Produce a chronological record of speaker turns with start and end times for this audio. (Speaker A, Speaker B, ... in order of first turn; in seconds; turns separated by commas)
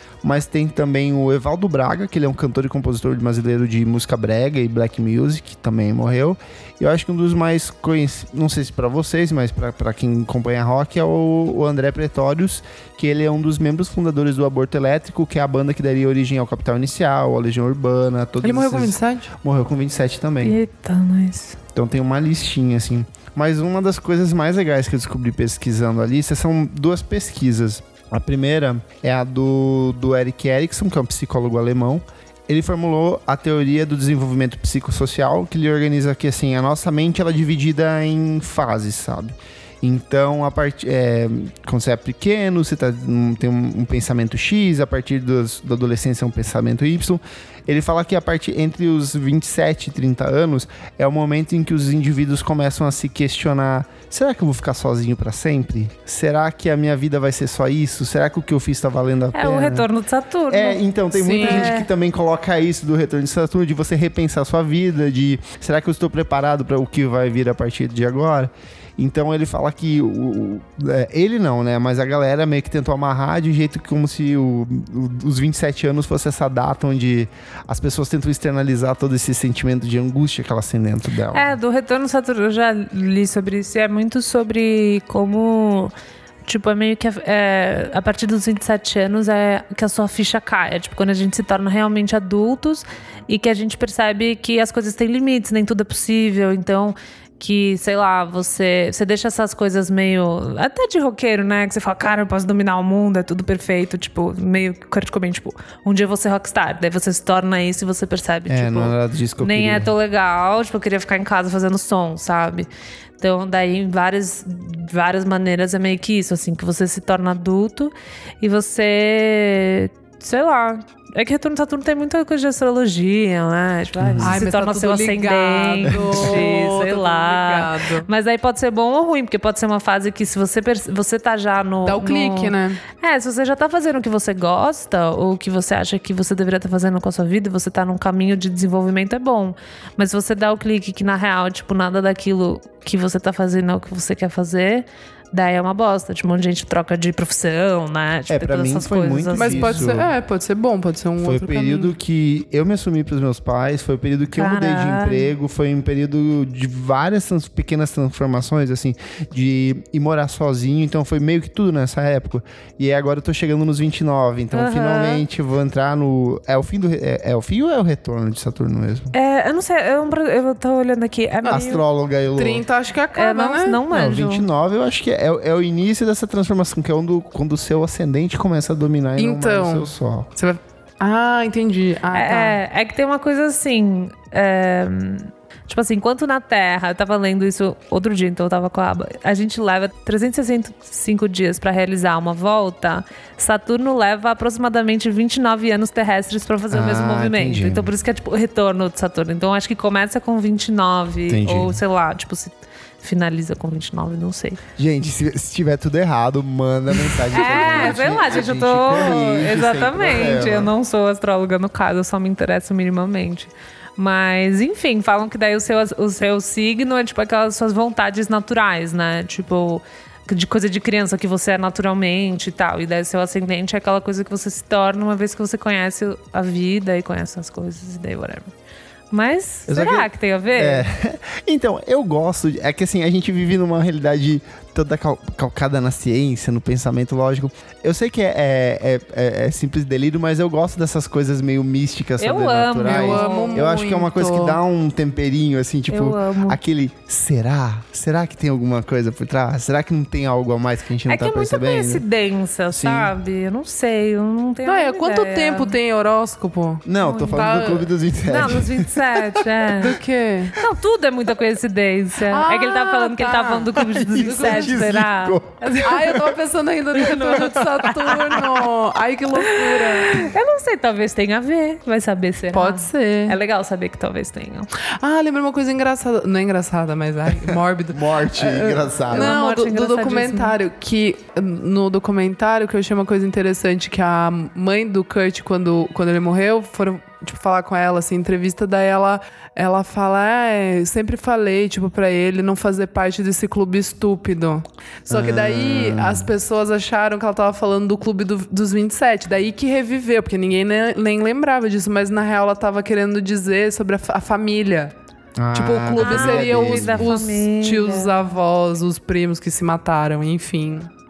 Speaker A: 0.2-20.6, Speaker B: 18.4-19.3, Speaker C: 20.4-21.6, Speaker A: 21.7-59.9, Speaker C: 59.3-60.8, Speaker A: 60.5-81.5, Speaker B: 61.1-61.7, Speaker C: 61.3-61.9, Speaker C: 81.3-85.9, Speaker C: 86.5-112.7, Speaker A: 108.5-109.9, Speaker C: 113.2-149.9, Speaker A: 124.0-124.4, Speaker B: 124.2-128.1, Speaker A: 125.9-126.4, Speaker B: 131.8-132.8, Speaker A: 148.3-150.1, Speaker B: 149.3-151.9, Speaker A: 151.2-169.1, Speaker C: 154.3-155.3, Speaker C: 164.5-165.2, Speaker C: 169.1-171.8, Speaker B: 171.4-171.7, Speaker A: 171.5-172.7, Speaker B: 172.3-173.8, Speaker C: 173.1-174.5, Speaker A: 173.9-180.3, Speaker B: 179.2-182.6, Speaker C: 182.1-204.6, Speaker A: 196.7-197.9, Speaker A: 201.3-201.8, Speaker A: 204.8-210.7, Speaker C: 207.3-228.5, Speaker C: 229.1-230.9, Speaker A: 229.7-252.0, Speaker C: 242.2-243.7, Speaker B: 242.8-244.6, Speaker C: 245.9-246.6, Speaker C: 251.1-255.7, Speaker A: 252.7-253.1, Speaker B: 254.6-257.9, Speaker A: 256.9-259.4, Speaker C: 257.0-260.0, Speaker B: 259.7-260.6, Speaker C: 260.5-266.2, Speaker B: 262.2-264.8, Speaker A: 263.8-266.4, Speaker B: 265.8-270.3, Speaker C: 266.9-268.1, Speaker A: 267.3-267.6, Speaker C: 269.4-274.7, Speaker B: 272.5-273.4, Speaker B: 275.0-304.9, Speaker A: 277.3-279.4, Speaker C: 279.1-280.6, Speaker A: 295.1-296.3, Speaker A: 305.4-307.1, Speaker B: 305.5-310.9, Speaker C: 305.9-308.1